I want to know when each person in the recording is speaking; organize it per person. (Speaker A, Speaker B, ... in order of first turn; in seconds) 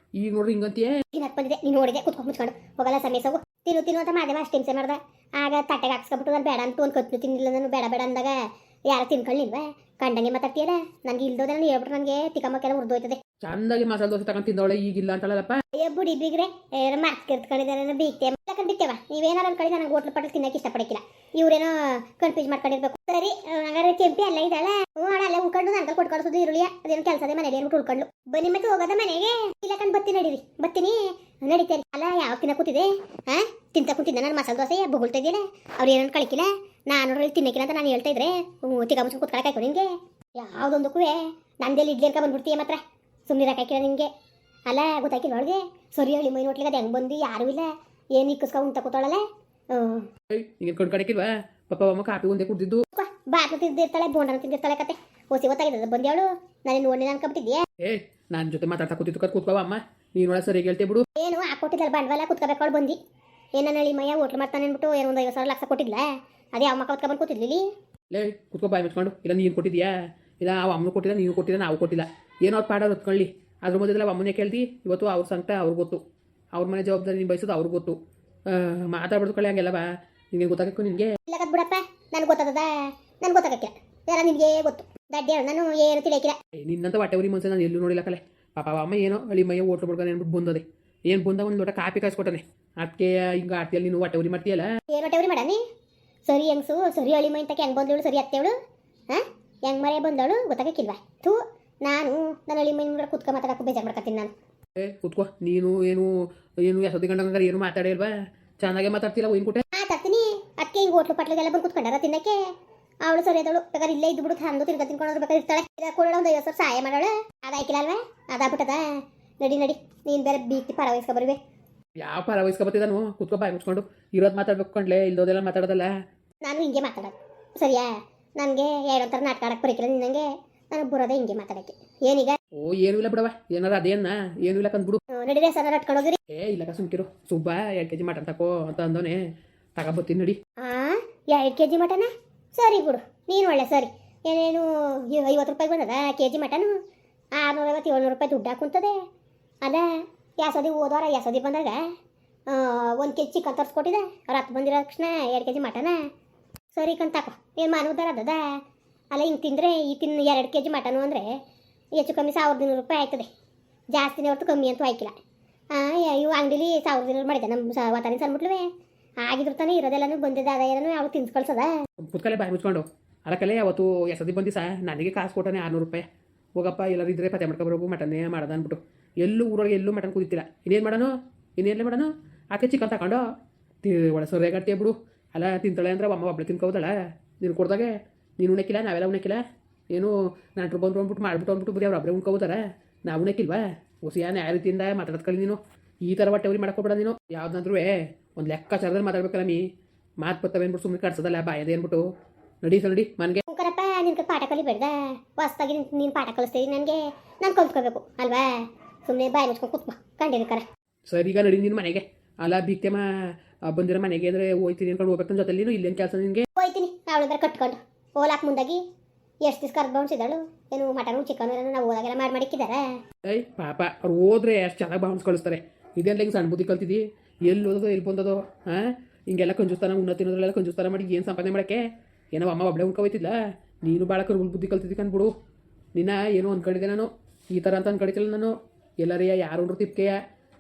Speaker A: 0.2-1.0, 13.4-15.6, 50.3-52.8, 57.8-61.0, 68.1-76.0, 76.6-81.2, 86.6-94.7, 104.8-106.1, 106.6-109.6, 122.0-125.9, 132.6-135.0, 136.3-139.2, 139.8-140.4, 172.0-176.1, 176.6-183.2, 183.8-199.6, 200.2-202.0, 202.6-203.4, 211.1-213.1, 213.7-216.5, 223.2-231.8, 232.3-235.3, 235.9-240.2
Speaker B: 1.1-13.2, 15.7-44.1, 44.7-50.1, 53.0-57.7, 61.2-63.0, 63.6-67.6, 81.3-86.4, 94.9-95.6, 96.3-98.5, 99.1-104.3, 109.7-112.4, 113.0-118.9, 119.4-121.4, 126.4-132.4, 135.1-136.2, 140.6-146.7, 147.4-148.9, 150.4-151.8, 152.5-156.0, 156.8-158.4, 159.1-161.3, 162.0-163.3, 163.9-165.2, 165.7-168.7, 169.2-171.7, 203.5-210.7, 216.6-218.8, 219.4-222.9